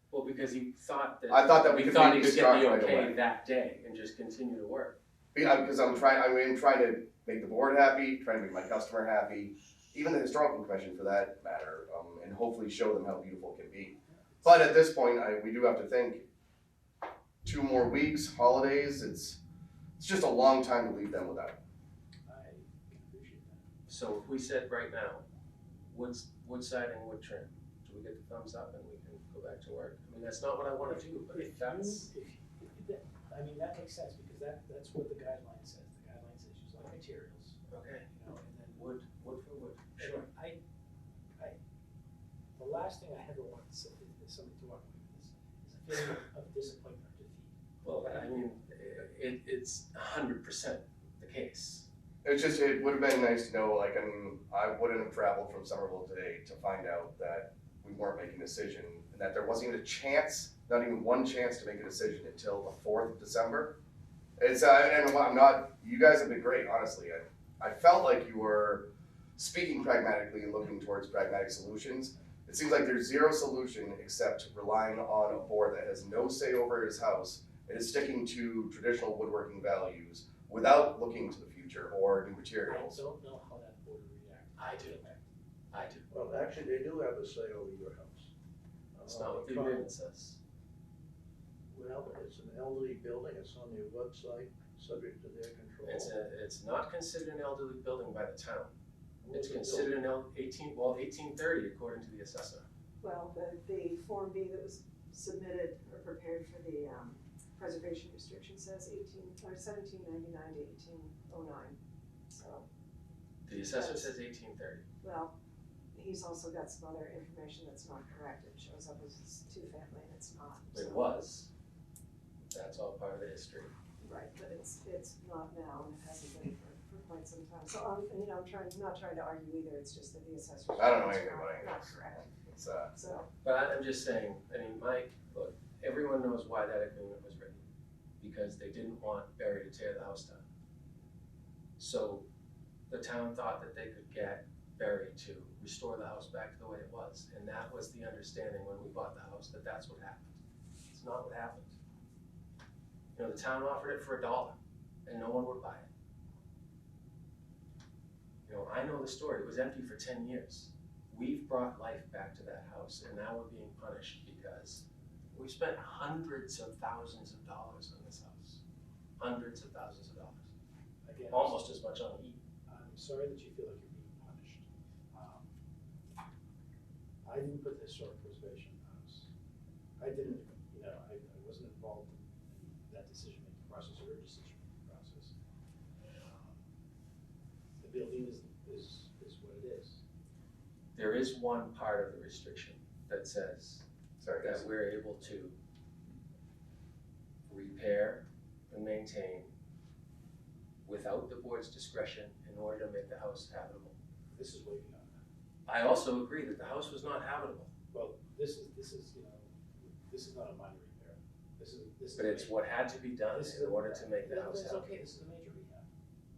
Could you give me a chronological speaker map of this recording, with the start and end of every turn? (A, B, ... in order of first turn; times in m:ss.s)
0:00.1-0:05.0 A
0:01.3-0:03.2 B
0:05.4-0:16.3 B
0:14.1-0:14.7 C
0:17.4-0:19.4 B
0:20.0-0:21.6 B
0:22.3-0:23.6 C
0:23.9-0:25.2 A
0:25.9-0:32.1 A
0:30.9-0:38.9 C
0:37.7-0:38.1 A
0:38.8-0:40.2 A
0:40.0-0:40.6 C
0:42.6-0:47.5 C
0:47.8-0:51.9 A
0:52.2-1:03.8 B
1:04.4-1:23.0 B
1:22.7-1:25.3 C
1:24.6-1:25.0 A
1:25.7-1:26.0 A
1:26.1-1:28.3 D
1:28.9-1:29.8 D
1:29.1-1:30.4 A
1:31.7-1:36.1 D
1:35.8-1:38.7 A
1:39.2-1:39.9 D
1:39.3-1:42.7 A
1:43.0-1:51.8 E
1:52.3-1:52.7 E
1:53.4-1:54.8 A
1:53.5-1:54.1 E
1:55.0-1:55.4 E
1:55.9-2:01.1 E
2:00.7-2:01.5 A
2:02.5-2:03.7 A
2:04.0-2:12.3 E
2:10.8-2:12.9 B
2:12.9-2:13.3 E
2:13.4-2:17.6 A
2:18.2-2:20.4 A
2:21.8-2:22.2 A
2:22.9-2:30.4 A
2:30.9-2:31.8 A
2:33.2-2:35.9 A
2:38.5-2:48.6 A
2:49.2-2:50.5 A
2:51.0-2:51.6 C
2:51.3-2:52.4 A
2:52.7-2:55.5 C
2:57.2-2:59.3 C
3:00.0-3:05.4 C
3:06.2-3:06.6 C
3:07.8-3:10.0 C
3:11.0-3:13.9 A
3:14.2-3:14.7 B
3:14.4-3:15.6 A
3:17.5-3:19.5 A
3:20.8-3:24.0 A
3:24.3-3:25.2 C
3:25.7-3:27.7 A
3:27.9-3:32.6 C
3:32.2-3:34.9 A
3:33.3-3:35.9 C